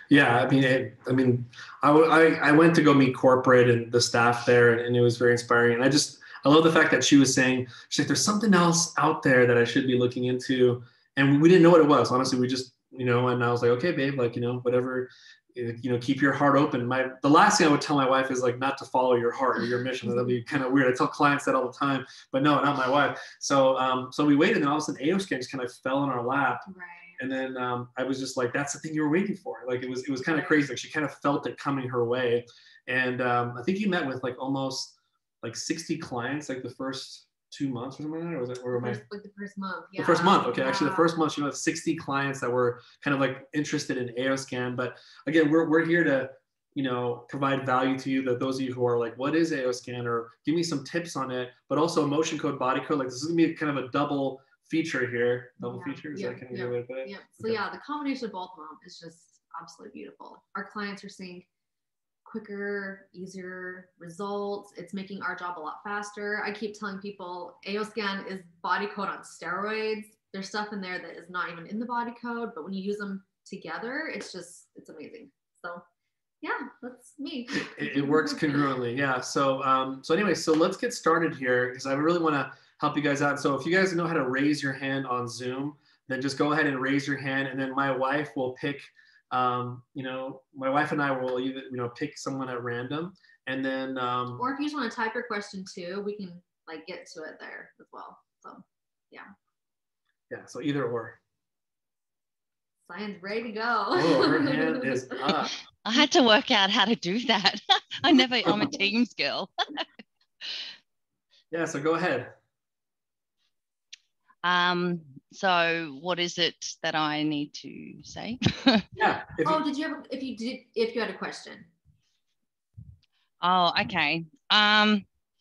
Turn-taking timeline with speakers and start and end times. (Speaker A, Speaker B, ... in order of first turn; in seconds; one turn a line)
Speaker A: 0.1-26.6
Speaker B: 20.1-20.3
Speaker B: 26.7-27.2
Speaker A: 27.2-39.0
Speaker B: 30.2-30.6
Speaker B: 38.7-41.1
Speaker A: 40.0-57.6
Speaker B: 55.6-61.5
Speaker B: 62.2-75.8
Speaker B: 76.4-78.6
Speaker A: 77.5-94.4
Speaker B: 94.4-99.3
Speaker A: 100.3-101.2
Speaker B: 102.8-105.0
Speaker A: 103.9-105.6
Speaker C: 105.8-109.5
Speaker A: 111.5-112.3
Speaker C: 114.4-118.9
Speaker A: 119.0-119.6
Speaker B: 119.5-121.7
Speaker C: 123.4-125.1